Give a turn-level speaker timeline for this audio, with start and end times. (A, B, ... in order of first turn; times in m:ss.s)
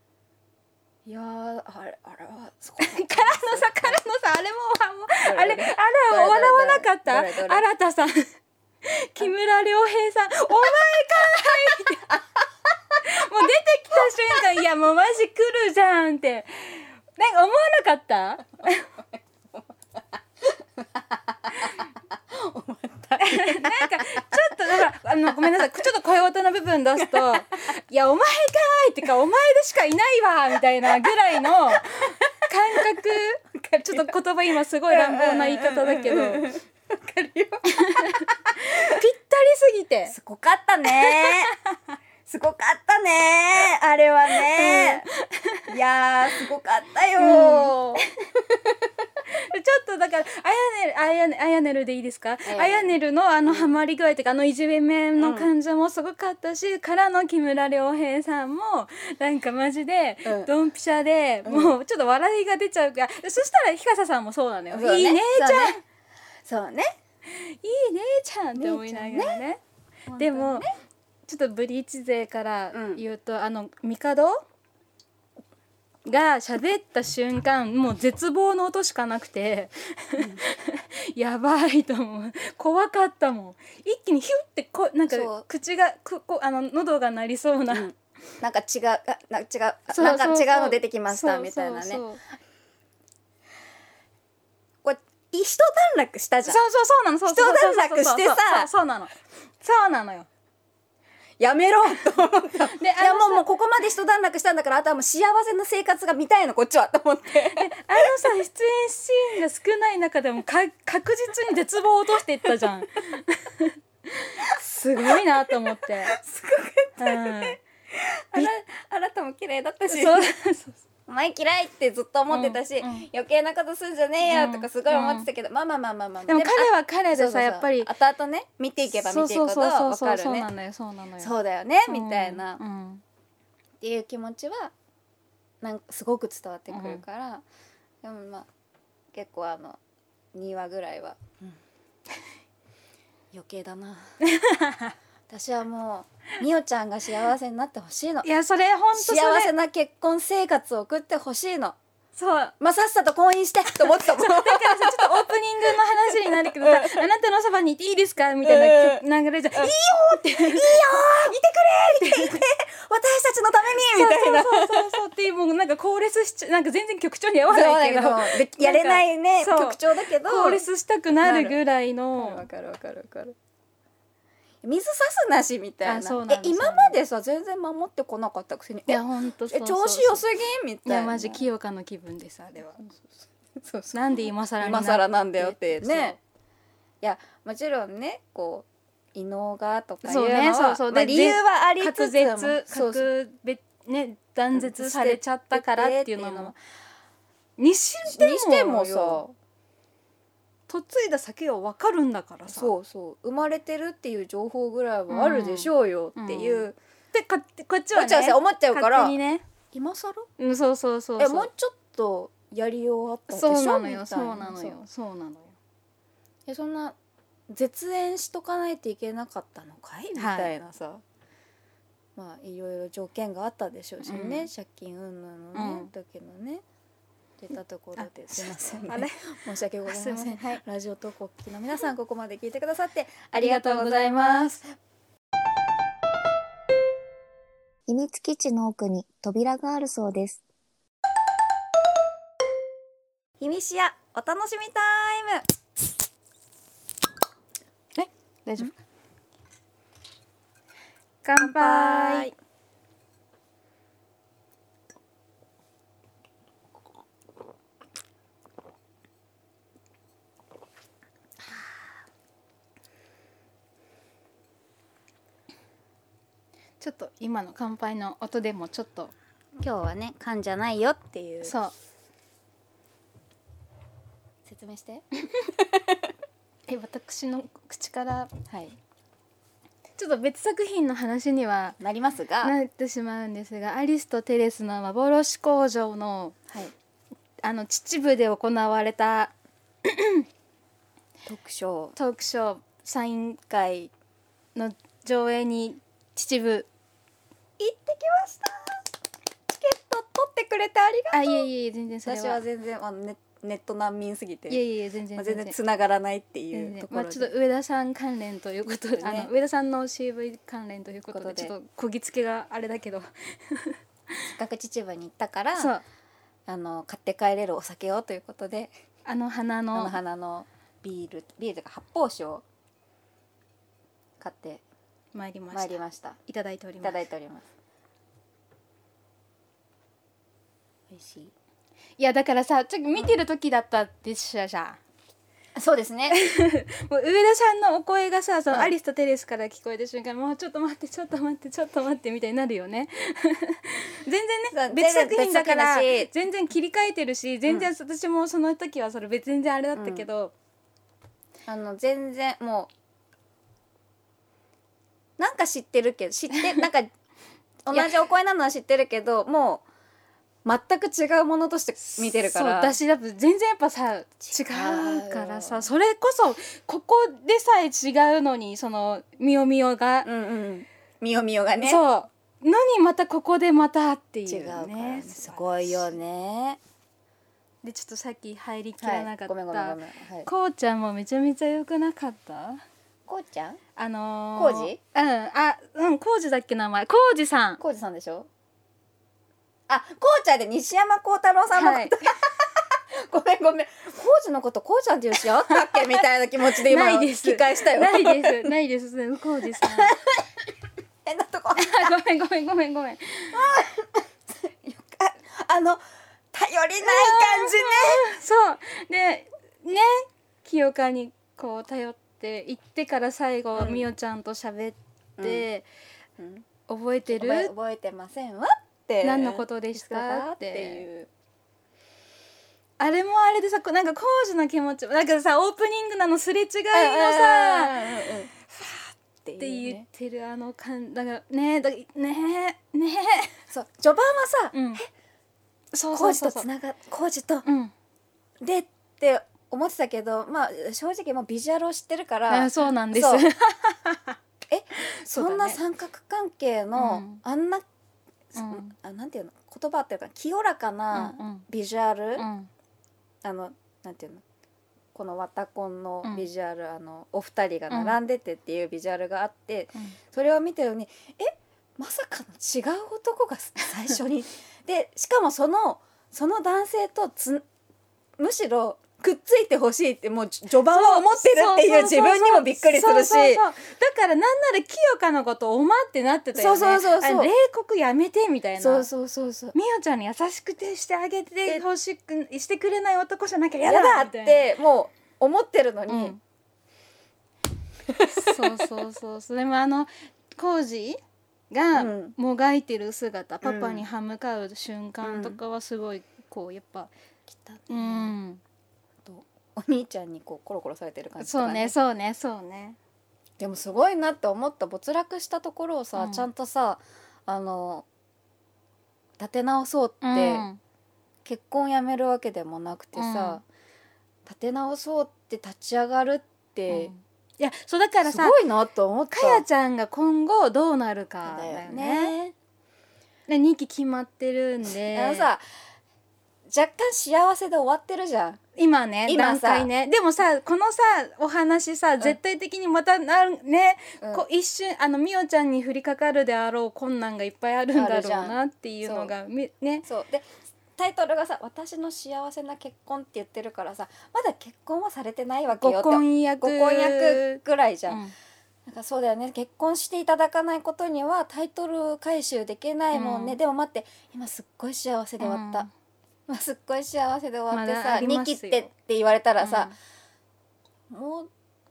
0:01.0-0:04.0 A
0:02.8-0:12.2 B
0:05.2-0:07.6 A
0:13.0-0:18.9 B
0:13.9-0:14.4 A
0:20.4-0:24.5 A
0:23.2-0:36.5 B
0:25.4-0:25.8 A
0:27.0-0:27.4 A
0:31.7-0:32.3 A
0:33.5-0:34.1 A
0:34.9-0:38.9 A
0:37.7-0:40.2 B
0:40.1-0:41.5 A
0:40.9-0:41.5 B
0:42.3-0:45.1 A
0:44.3-0:45.7 B
0:45.7-0:48.6 A
0:47.2-0:48.0 B
0:49.3-1:05.8 B
0:52.5-0:53.8 A
0:55.2-0:55.5 A
1:00.2-1:00.5 A
1:01.4-1:01.8 A
1:04.7-1:05.8 A
1:06.4-1:06.9 A
1:07.3-1:09.6 B
1:08.6-1:09.4 A
1:10.1-1:10.7 A
1:10.1-1:10.6 B
1:11.3-1:14.4 B
1:12.7-1:13.0 A
1:16.0-1:27.9 B
1:20.2-1:20.4 A
1:25.1-1:25.5 A
1:27.7-1:32.0 A
1:29.9-1:32.2 B
1:34.8-1:36.6 A
1:36.4-1:40.3 B
1:37.3-1:38.7 A
1:41.4-1:48.1 A
1:42.7-1:43.5 B
1:47.5-1:56.2 B
1:55.0-2:00.3 A
1:57.0-1:57.6 B
1:59.9-2:00.8 B
2:01.1-2:10.5 A
2:02.3-2:03.1 B
2:04.2-2:05.3 B
2:06.3-2:07.9 B
2:08.9-2:11.3 B
2:11.2-2:12.6 A
2:11.9-2:13.0 B
2:13.8-2:14.7 A
2:15.6-2:17.4 A
2:16.7-2:17.0 B
2:18.0-2:18.5 A
2:19.1-2:19.8 A
2:20.3-2:21.6 A
2:23.3-2:24.0 A
2:24.2-2:24.9 B
2:25.3-2:28.3 A
2:28.2-2:29.5 B
2:28.9-2:31.8 A
2:32.2-2:32.5 B
2:32.6-2:35.3 A
2:33.8-2:41.3 B
2:36.3-2:37.0 A
2:38.4-2:39.0 A
2:39.6-2:45.0 A
2:42.0-2:42.4 B
2:43.9-2:52.5 B
2:47.5-2:50.6 A
2:51.2-2:51.6 A
2:52.2-2:53.4 A
2:54.6-3:01.4 A
2:55.8-2:57.0 B
2:58.9-3:00.2 B
3:00.8-3:02.8 B
3:03.6-3:06.2 A
3:03.9-3:06.2 B
3:07.0-3:13.1 A
3:10.0-3:16.5 B
3:14.5-3:16.6 A
3:17.6-3:19.2 B
3:18.1-3:19.4 A
3:20.7-3:22.7 B
3:22.5-3:26.8 A
3:25.1-3:29.5 B
3:27.9-3:29.2 A
3:29.7-3:30.3 A
3:30.4-3:31.5 B
3:31.2-3:34.8 A
3:33.3-3:35.6 B
3:36.5-3:37.0 A
3:37.5-3:41.0 A
3:40.2-3:40.5 B
3:42.2-3:46.6 A
3:44.0-3:44.5 B
3:45.5-3:45.9 B
3:47.4-3:54.7 A
3:48.0-3:50.6 B
3:53.3-3:54.6 B
3:57.9-4:00.4 C
4:03.4-4:05.5 A
4:08.0-4:08.7 B
4:11.2-4:12.3 B
4:11.4-4:12.3 A
4:26.8-4:29.1 B
4:29.6-4:31.6 A
4:31.4-4:31.7 B
4:34.5-4:35.1 A
4:35.6-4:36.0 A
4:36.7-4:38.3 B
4:38.5-4:38.8 A
4:40.0-4:41.8 B
4:41.8-4:42.6 A
4:42.4-4:46.4 B
4:47.4-4:49.3 B
4:49.8-4:50.2 B
4:51.3-4:52.0 A
4:52.0-4:53.4 B
4:53.5-4:53.9 A
4:54.6-4:56.7 B
4:57.6-4:58.9 A
4:59.5-5:01.5 A
5:01.1-5:02.4 B
5:02.1-5:04.6 A
5:04.5-5:05.6 B
5:05.2-5:07.3 A
5:06.5-5:14.3 B
5:08.9-5:09.3 A
5:11.1-5:11.5 A
5:14.3-5:15.7 A
5:15.6-5:15.8 B
5:16.5-5:18.7 A
5:19.0-5:20.0 B
5:19.7-5:22.4 A
5:24.2-5:24.6 A
5:25.1-5:27.0 B
5:25.5-5:26.2 A
5:26.8-5:27.4 A
5:30.9-5:31.3 A
5:32.0-5:34.8 B
5:35.6-5:36.2 A
5:36.1-5:50.3 B
5:44.5-5:46.1 A
5:49.8-5:50.1 A
5:51.5-5:52.7 A
5:55.2-5:56.9 A
5:57.7-5:59.6 A
6:00.4-6:02.8 A
6:01.8-6:10.1 B
6:04.3-6:05.7 A
6:10.0-6:11.8 A
6:11.6-6:15.9 B
6:14.3-6:16.6 A
6:17.6-6:22.6 B
6:18.8-6:20.3 A
6:23.1-6:23.6 A
6:23.8-6:27.6 B
6:24.4-6:24.8 A
6:27.6-6:28.3 A
6:29.7-6:38.5 A
6:31.5-6:32.1 B
6:35.5-6:36.0 B
6:36.6-6:40.0 B
6:39.5-6:40.4 A
6:41.0-6:42.0 A
6:41.6-6:43.4 B
6:43.3-6:45.8 A
6:46.3-6:48.0 A
6:46.8-6:55.6 B
6:53.6-6:53.9 A
6:55.2-6:55.5 A
6:56.2-6:56.5 A
6:56.7-6:57.5 B
6:57.1-7:01.1 A
6:59.0-7:00.9 B
7:02.8-7:08.9 B
7:06.7-7:08.4 A
7:09.2-7:09.8 A
7:09.4-7:13.4 B
7:13.5-7:14.9 A
7:14.5-7:14.8 B
7:15.7-7:16.5 B
7:15.9-7:17.4 A
7:17.5-7:17.7 B
7:18.4-7:23.3 A
7:22.3-7:24.2 B
7:24.5-7:27.6 A
7:24.8-7:25.6 B
7:26.8-7:27.2 B
7:28.3-7:32.3 A
7:28.4-7:28.7 B
7:30.9-7:31.5 B
7:32.2-7:32.5 B
7:33.2-7:34.2 A
7:34.9-7:47.4 A
7:37.7-7:38.0 B
7:48.2-7:53.4 A
7:50.6-7:58.9 B
7:56.3-7:57.3 A
7:58.6-7:59.6 A
7:59.6-8:04.4 B
8:03.6-8:06.2 A
8:05.9-8:06.2 B
8:07.9-8:08.6 A
8:08.1-8:16.9 B
8:11.7-8:12.2 A
8:13.4-8:13.8 A
8:15.0-8:15.4 A
8:17.3-8:18.2 A
8:17.7-8:18.4 B
8:19.0-8:21.8 A
8:21.2-8:22.8 B
8:23.4-8:27.9 A
8:26.0-8:26.2 B
8:29.2-8:30.5 A
8:30.0-8:30.6 B
8:31.2-8:33.4 A
8:33.0-8:33.4 B
8:34.3-8:36.9 A
8:36.7-8:38.4 B
8:38.1-8:39.4 A
8:39.1-8:42.2 B
8:41.2-8:42.3 A
8:43.3-8:45.3 B
8:44.9-8:45.4 A
8:46.5-8:48.4 A
8:48.6-8:59.9 B
8:49.1-8:49.7 A
8:57.8-8:59.1 A
8:59.9-9:08.0 A
9:05.6-9:08.2 B
9:08.7-9:15.7 A
9:12.9-9:13.4 B
9:15.2-9:15.7 B
9:16.3-9:19.7 A
9:17.5-9:18.7 B
9:19.4-9:19.7 B
9:20.9-9:21.3 A